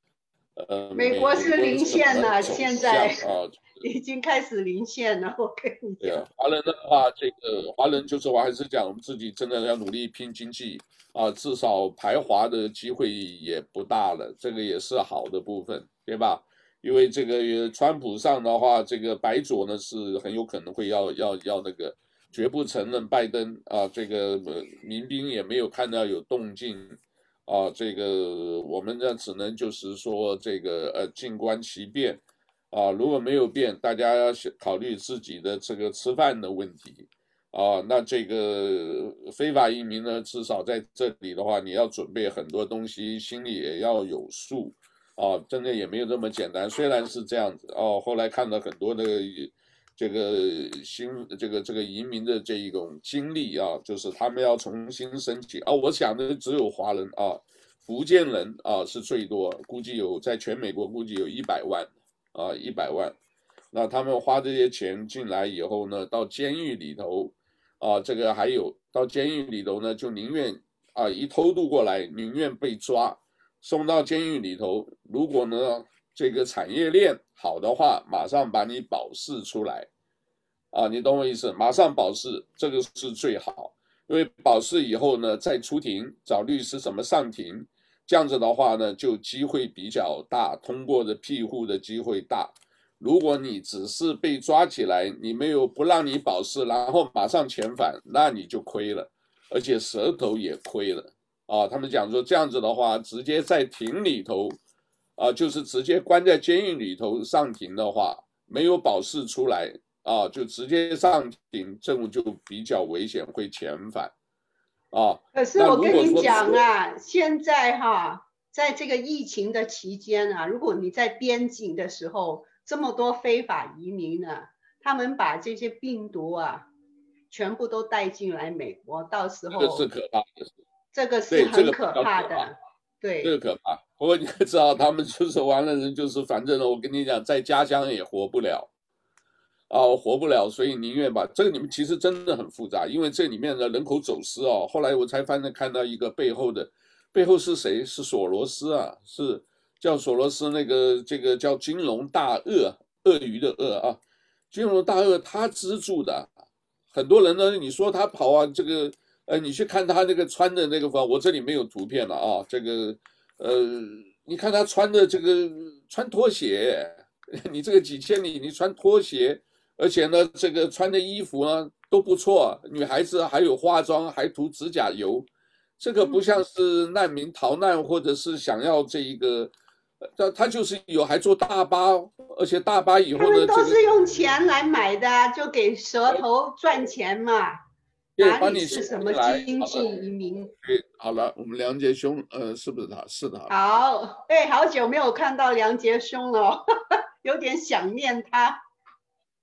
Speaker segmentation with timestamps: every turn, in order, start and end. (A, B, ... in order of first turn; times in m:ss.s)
0:00.6-0:03.6 A
0:01.0-0:03.2 B
0:03.8-0:06.2 B
0:06.0-1:03.2 A
1:03.7-1:19.9 A
1:20.7-1:44.6 A
1:45.2-1:54.1 A
1:54.9-1:56.6 A
1:55.3-2:06.7 B
2:07.3-2:09.8 B
2:09.5-2:10.5 A
2:10.9-2:13.3 B
2:11.3-2:12.5 A
2:13.2-2:18.7 A
2:19.7-2:34.0 A
2:34.5-2:36.3 A
2:36.9-2:55.3 A
2:55.8-2:59.5 A
3:00.2-3:03.8 A
3:03.2-3:07.6 B
3:08.2-3:09.8 A
3:08.2-3:10.5 B
3:10.6-3:13.5 A
3:13.5-3:18.6 B